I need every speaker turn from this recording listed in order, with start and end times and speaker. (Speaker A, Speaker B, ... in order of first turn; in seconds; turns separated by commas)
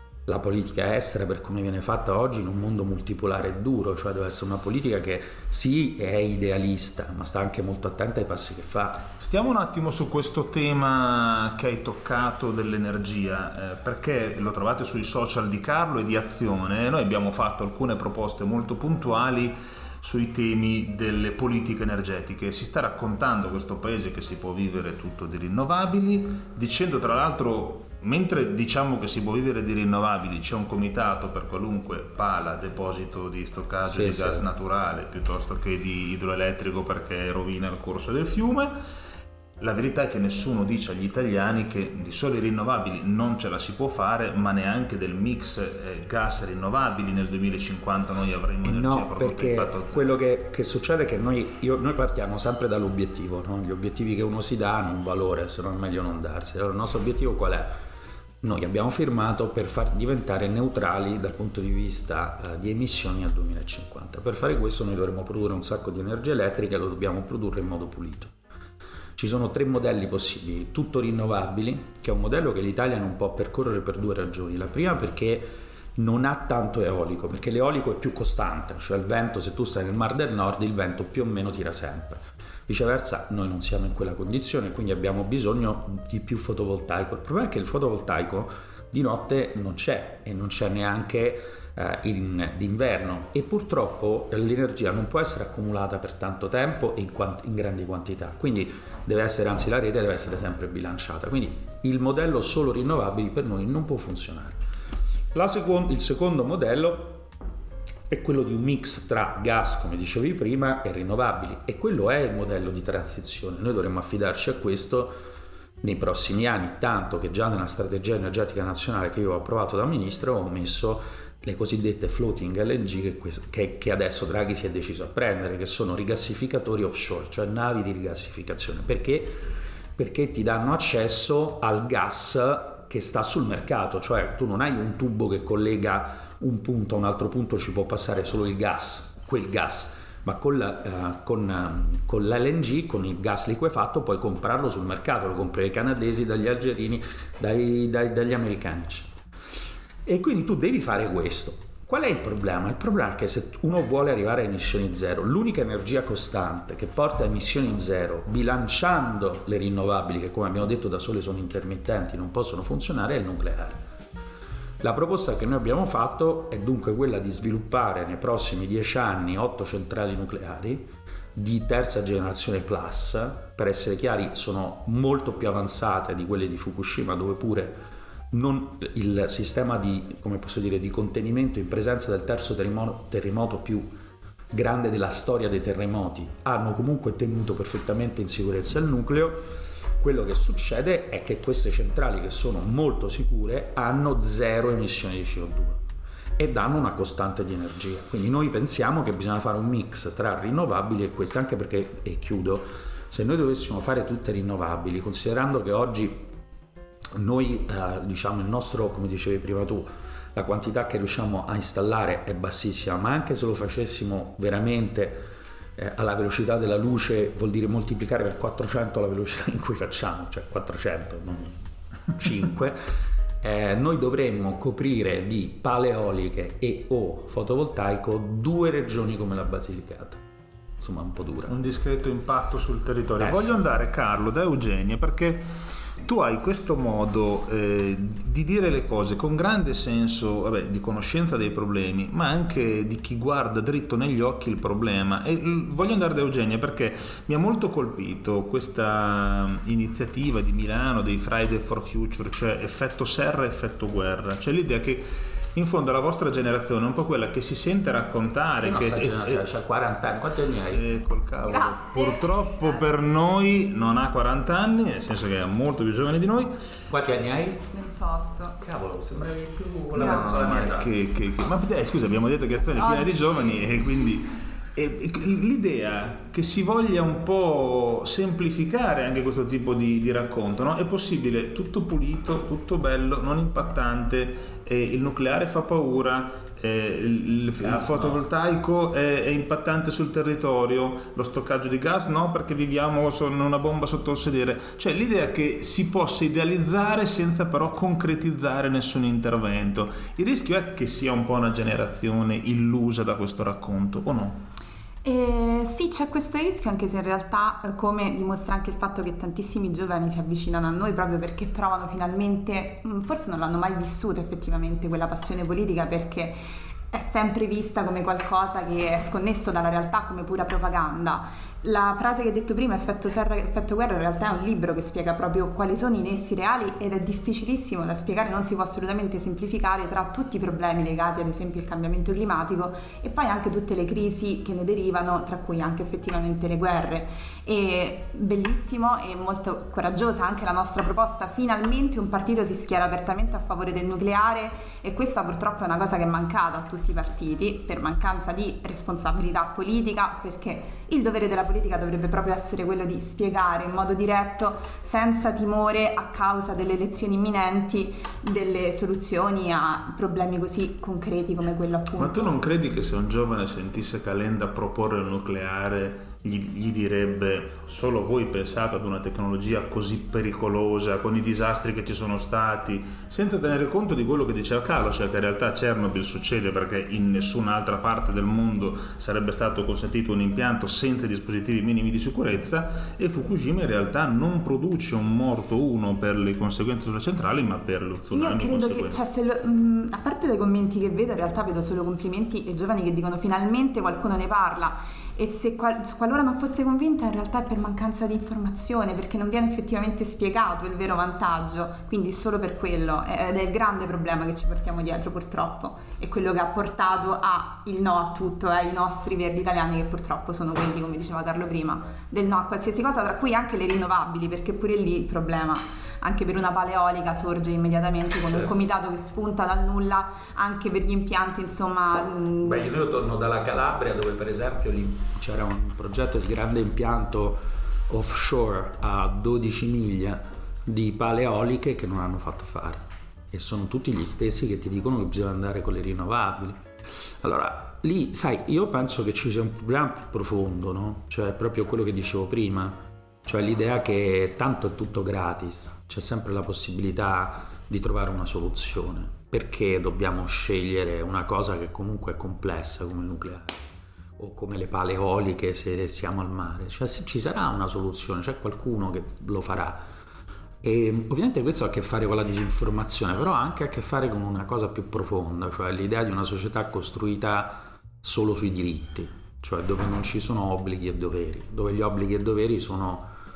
Speaker A: 0.2-9.1, Speaker B: 9.2-38.7, Speaker A: 33.9-34.5, Speaker B: 39.6-50.1, Speaker A: 48.6-57.8, Speaker A: 58.4-68.3, Speaker A: 69.2-104.6, Speaker A: 105.3-107.3, Speaker A: 108.1-115.2, Speaker A: 115.8-129.4, Speaker A: 129.9-149.1, Speaker A: 150.1-163.8, Speaker A: 164.8-183.9, Speaker A: 184.5-195.8, Speaker A: 196.4-206.3, Speaker A: 207.2-221.6, Speaker A: 222.1-222.8, Speaker A: 223.4-230.2, Speaker A: 230.8-231.6, Speaker B: 231.5-235.5, Speaker A: 233.2-233.5, Speaker B: 236.0-259.4, Speaker A: 258.6-260.8, Speaker B: 260.7-266.5, Speaker C: 261.4-262.6, Speaker A: 266.9-267.7, Speaker C: 267.7-268.6, Speaker A: 268.6-270.9, Speaker B: 269.9-304.4, Speaker C: 272.8-273.7, Speaker A: 287.6-288.2, Speaker C: 305.0-316.4, Speaker C: 316.9-362.4, Speaker B: 362.0-389.0, Speaker C: 388.1-422.7, Speaker A: 422.4-436.6, Speaker A: 437.2-453.7, Speaker A: 454.2-459.8, Speaker A: 460.6-473.1